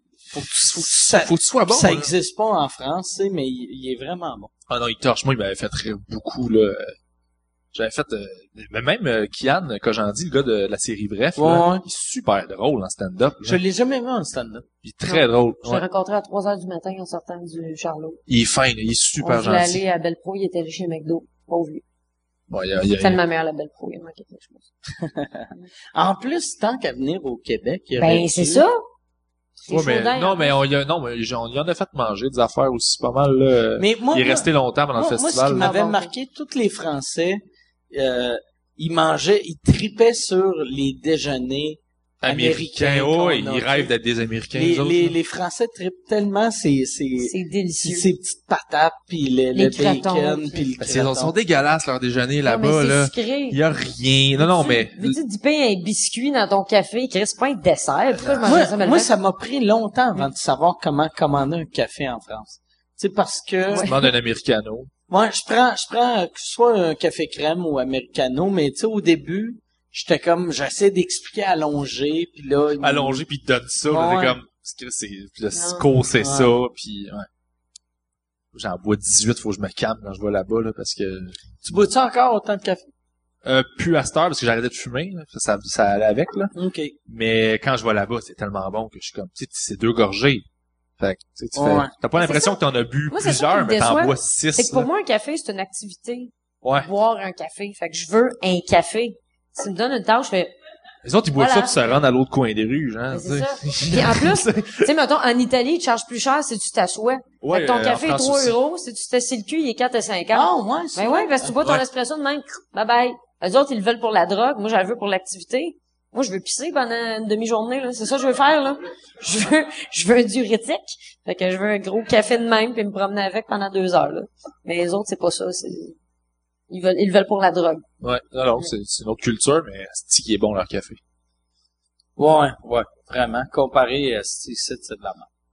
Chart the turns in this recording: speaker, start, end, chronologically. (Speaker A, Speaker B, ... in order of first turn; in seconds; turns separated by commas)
Speaker A: 0.3-4.5, Speaker B: 0.3-2.1, Speaker B: 4.7-6.9, Speaker B: 7.7-13.6, Speaker A: 11.4-11.8, Speaker A: 13.4-14.7, Speaker B: 14.8-15.8, Speaker C: 15.1-18.2, Speaker B: 18.3-19.8, Speaker C: 19.2-21.8, Speaker B: 22.5-23.2, Speaker C: 23.0-24.7, Speaker A: 25.0-28.6, Speaker C: 28.0-28.8, Speaker C: 29.7-30.6, Speaker B: 29.7-35.7, Speaker A: 33.8-43.9, Speaker C: 35.5-36.1, Speaker B: 42.2-45.1, Speaker A: 44.5-51.3, Speaker C: 47.2-48.1, Speaker C: 49.5-50.6, Speaker B: 50.8-55.2, Speaker C: 52.5-53.6, Speaker C: 54.4-59.1, Speaker B: 58.2-58.6, Speaker A: 58.5-63.9, Speaker C: 63.7-64.1, Speaker B: 63.8-64.9, Speaker A: 65.1-73.2, Speaker B: 72.8-77.3, Speaker A: 73.9-74.4, Speaker C: 75.5-75.8, Speaker A: 76.2-76.5, Speaker B: 78.5-81.4, Speaker A: 81.6-82.9, Speaker B: 83.5-86.5, Speaker A: 86.5-87.0, Speaker B: 87.1-90.4, Speaker B: 91.0-94.9, Speaker A: 91.6-91.9, Speaker C: 92.2-92.6, Speaker C: 93.1-96.3, Speaker B: 96.6-96.9, Speaker C: 96.8-100.5, Speaker B: 101.0-104.9, Speaker C: 101.4-101.8, Speaker C: 103.1-126.0, Speaker B: 107.4-108.5, Speaker A: 110.3-111.5, Speaker C: 126.7-127.8, Speaker B: 128.0-131.0, Speaker A: 132.2-135.3